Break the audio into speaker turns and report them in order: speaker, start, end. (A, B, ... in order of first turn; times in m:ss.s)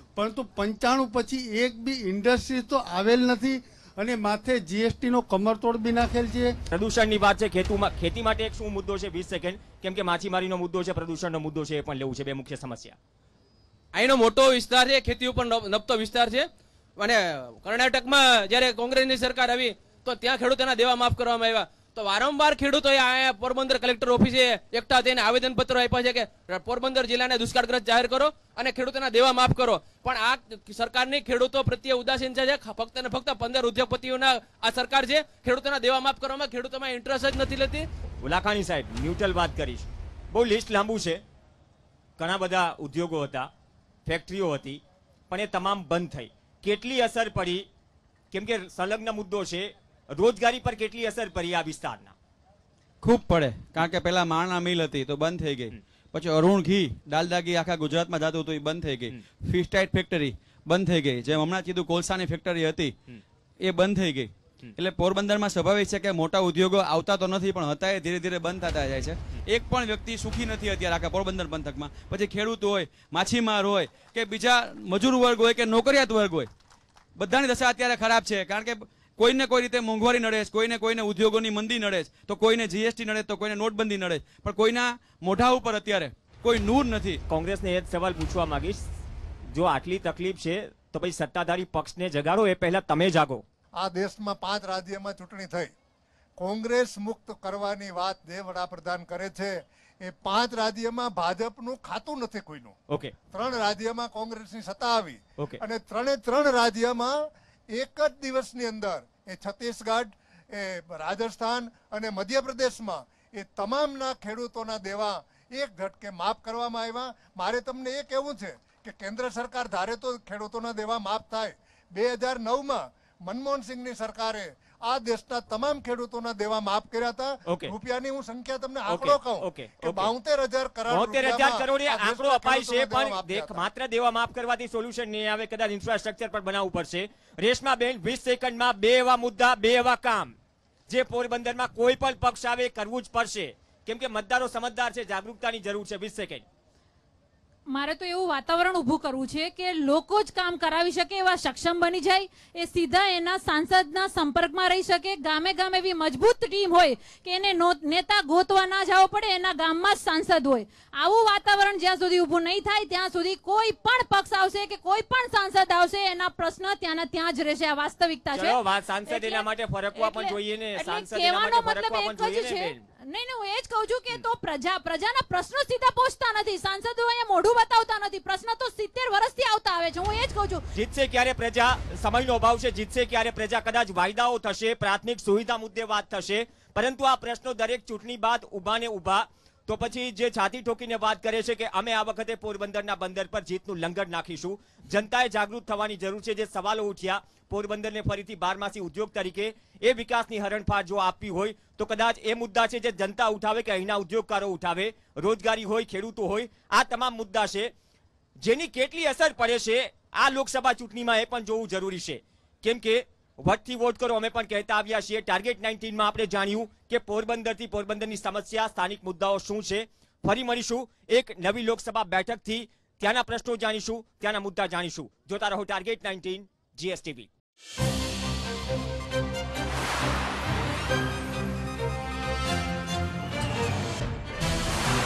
0:00.2-0:06.4 A
0:06.7-0:13.0 B
0:13.9-0:37.8 C
0:38.2-0:41.2 B
0:42.2-0:43.5 B
0:44.0-0:47.6 B
0:48.3-0:52.1 B
0:53.0-1:02.9 D
1:03.6-1:16.5 D
1:17.2-1:27.2 D
1:27.3-1:28.8 B
1:29.5-1:33.4 B
1:33.8-1:35.7 E
1:36.4-1:42.8 E
1:43.3-1:47.1 E
1:47.7-2:13.7 E
2:07.5-2:07.7 B
2:08.9-2:10.1 B
2:10.9-2:20.3 B
2:20.9-2:26.4 B
2:27.7-3:00.6 F
2:48.3-2:52.8 B
3:00.7-3:27.7 B
3:28.4-3:47.3 B